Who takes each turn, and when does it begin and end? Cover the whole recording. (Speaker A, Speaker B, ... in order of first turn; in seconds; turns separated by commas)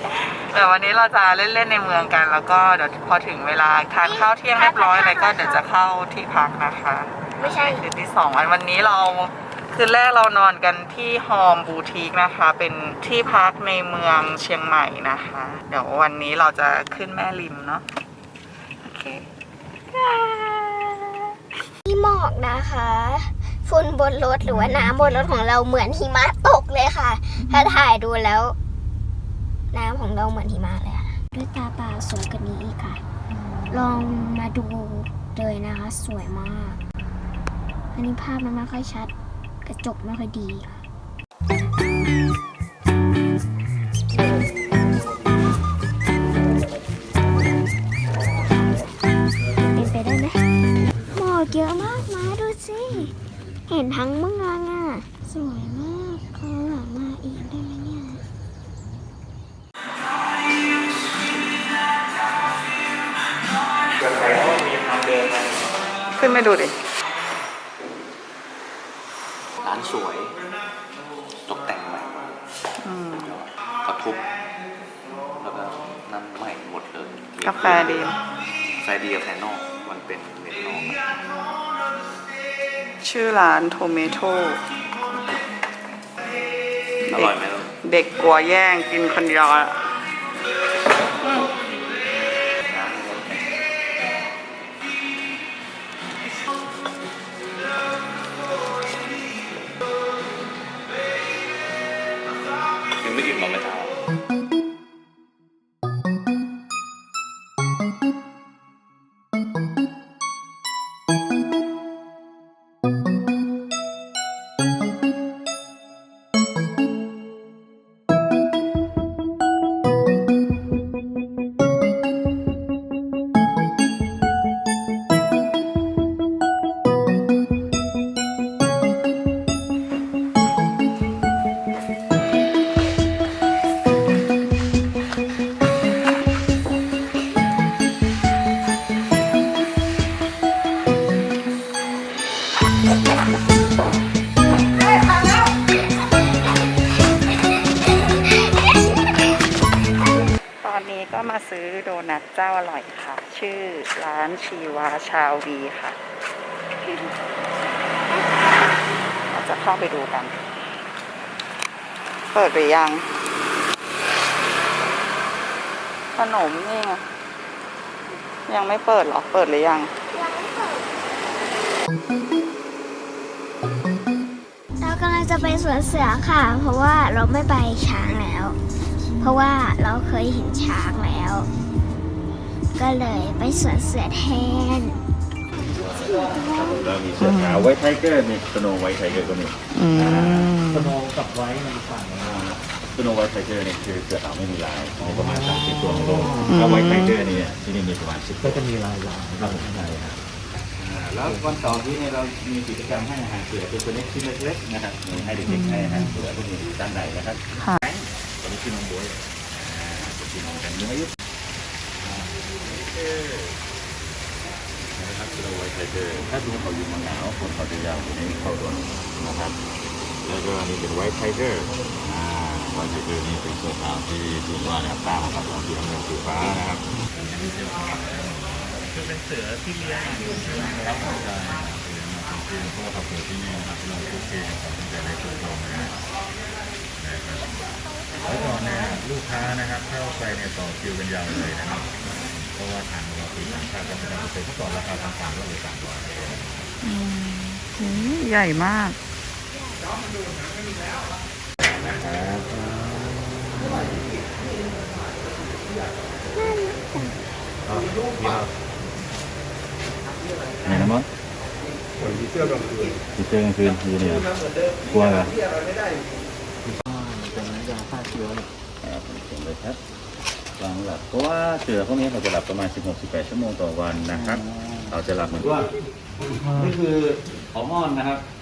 Speaker A: 0.2-17.8, Speaker B: 4.0-5.6, Speaker B: 7.4-7.8, Speaker A: 18.8-19.2, Speaker B: 19.9-21.1, Speaker B: 21.9-28.6, Speaker B: 29.7-33.0, Speaker B: 33.7-36.8, Speaker B: 38.0-39.1, Speaker B: 39.6-40.8, Speaker B: 49.7-50.4, Speaker B: 51.1-53.1, Speaker B: 53.7-58.2, Speaker C: 64.0-65.7, Speaker A: 66.2-66.7, Speaker C: 69.6-70.4, Speaker C: 71.5-72.4, Speaker A: 72.8-73.4, Speaker C: 73.2-74.3, Speaker C: 75.4-78.1, Speaker A: 77.4-78.2, Speaker C: 78.8-81.1, Speaker A: 83.0-84.6, Speaker A: 87.1-89.8, Speaker C: 87.1-87.7, Speaker C: 92.6-93.4, Speaker C: 103.0-104.0, Speaker A: 150.6-156.0, Speaker A: 159.3-160.4, Speaker A: 162.3-163.1, Speaker A: 166.2-167.0, Speaker A: 168.5-169.9, Speaker B: 170.1-171.0, Speaker B: 174.8-178.6, Speaker B: 179.2-181.5, Speaker B: 182.8-185.0, Speaker D: 185.8-190.5, Speaker B: 185.9-186.9, Speaker A: 187.2-187.7, Speaker A: 189.7-190.9, Speaker E: 190.0-192.4, Speaker D: 192.2-198.6, Speaker E: 195.0-196.8, Speaker A: 196.4-197.2, Speaker E: 198.4-199.8, Speaker D: 199.3-200.2, Speaker D: 200.8-211.1, Speaker E: 201.2-201.6, Speaker E: 205.3-206.2, Speaker D: 212.0-213.6, Speaker D: 214.9-219.6, Speaker D: 220.2-228.8, Speaker E: 228.9-230.8, Speaker D: 230.2-236.0, Speaker D: 237.0-237.6, Speaker B: 237.5-238.9, Speaker D: 238.2-246.7, Speaker A: 246.8-249.0, Speaker D: 251.8-252.8, Speaker D: 253.6-254.1, Speaker B: 256.3-257.2, Speaker D: 257.7-258.5, Speaker D: 260.6-261.1, Speaker E: 262.0-262.9, Speaker D: 262.0-265.4, Speaker E: 266.6-268.5, Speaker D: 268.8-269.8, Speaker D: 270.6-278.2, Speaker E: 274.1-274.9, Speaker E: 276.4-276.8